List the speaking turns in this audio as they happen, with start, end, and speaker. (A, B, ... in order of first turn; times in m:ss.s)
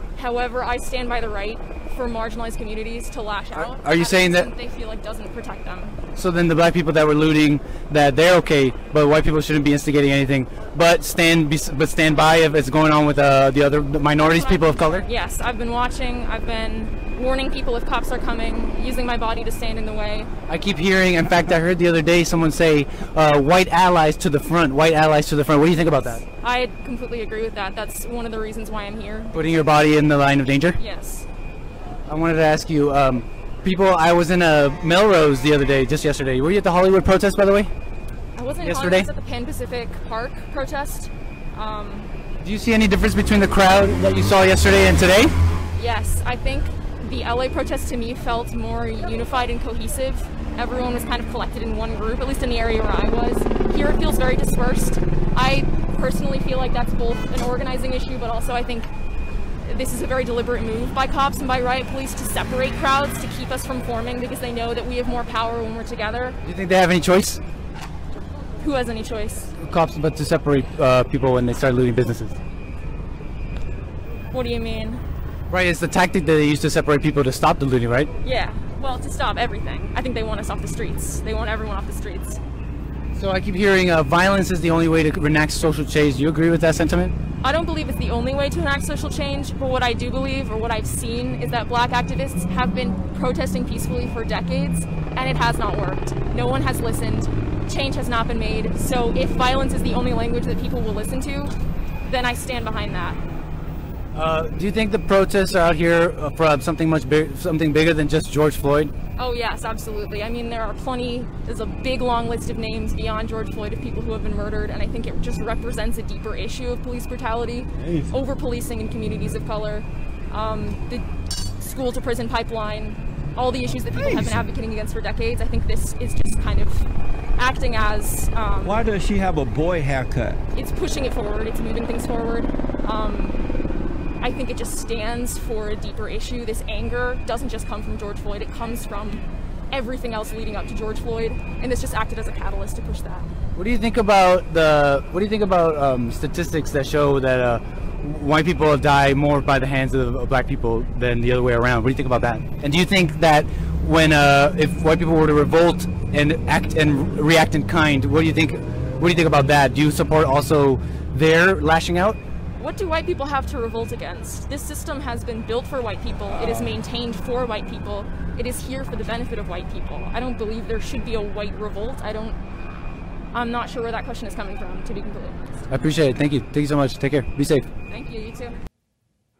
0:00.2-0:06.0 A
0:03.5-0:04.5 B
0:06.1-0:15.0 B
0:14.2-0:20.3 A
0:20.5-0:26.2 B
0:26.4-0:29.4 A
0:29.3-0:30.8 B
0:30.8-0:31.3 A
0:32.1-0:37.7 B
0:38.4-0:42.1 A
0:38.6-0:39.1 B
0:42.4-0:45.3 B
0:45.8-0:58.9 A
0:59.6-1:06.4 A
1:06.4-1:07.4 B
1:08.6-1:09.5 A
1:09.6-1:12.4 B
1:14.3-1:15.0 A
1:15.5-1:18.1 B
1:18.2-1:22.4 A
1:23.2-1:27.1 B
1:27.4-1:41.5 A
1:42.0-1:43.2 A
1:44.1-1:48.9 B
1:49.2-2:01.1 A
1:57.8-1:58.2 C
2:01.6-2:08.8 A
2:03.9-2:04.4 C
2:08.6-2:10.4 C
2:10.5-2:13.4 A
2:14.2-2:23.3 A
2:23.6-2:42.2 B
2:42.6-2:52.4 A
2:53.3-2:55.6 A
2:55.7-2:57.7 B
2:57.9-2:58.6 A